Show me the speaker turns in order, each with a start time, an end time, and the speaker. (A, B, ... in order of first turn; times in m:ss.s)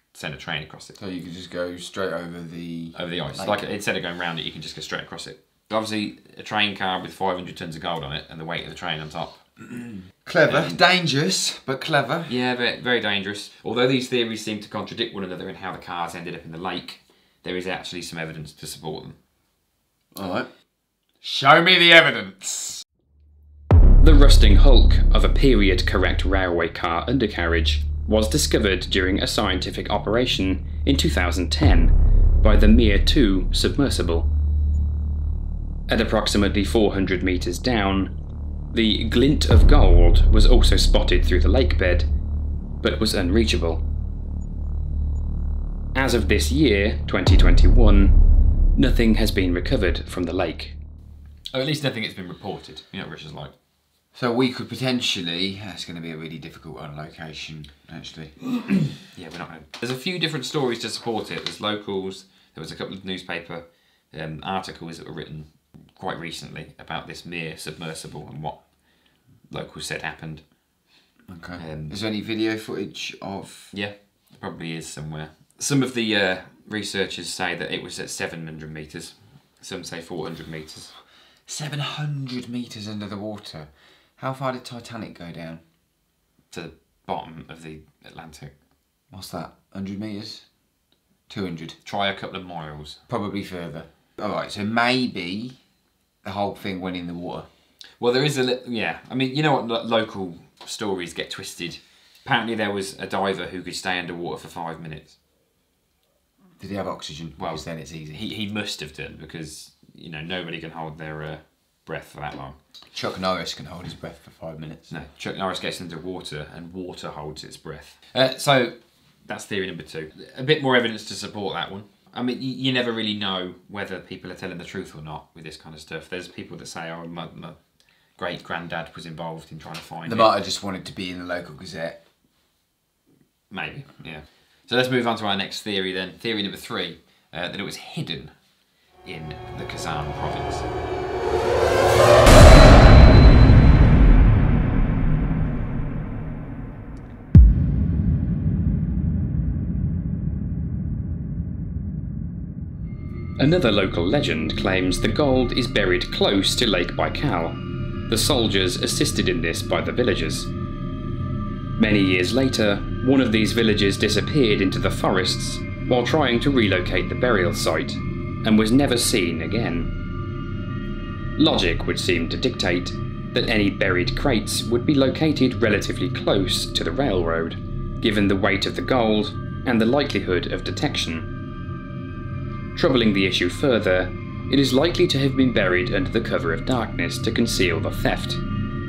0:00.1-0:01.0 A
0:01.0-0:03.7 B
0:02.9-0:09.4 A
0:09.6-0:12.3 B
0:10.5-0:10.8 A
0:12.3-0:19.2 A
0:20.1-0:20.5 B
0:21.2-0:22.8 B
0:24.0-0:34.3 C
0:35.9-0:38.1 C
0:38.7-0:42.1 C
0:42.8-0:43.8 C
0:45.9-0:48.2 C
0:48.8-0:50.8 C
0:51.5-0:53.5 A
0:54.1-0:58.4 B
0:59.1-1:08.6 A
1:09.5-1:10.4 A
1:11.3-1:13.7 B
1:11.6-1:11.9 A
1:13.7-1:20.9 A
1:21.5-1:25.6 B
1:26.5-1:28.5 A
1:29.1-1:30.4 B
1:31.3-1:31.8 B
1:31.8-1:33.0 A
1:33.1-1:35.6 B
1:36.2-1:37.5 B
1:38.0-1:45.2 A
1:46.6-1:48.2 B
1:47.4-1:52.6 A
1:52.9-1:54.9 B
1:54.9-2:07.6 A
2:08.2-2:10.3 A
2:10.0-2:12.0 B
2:13.5-2:18.3 A
2:19.0-2:20.7 A
2:33.4-2:40.5 C
2:41.8-2:49.9 C
2:51.4-3:01.3 C
3:02.7-3:08.4 C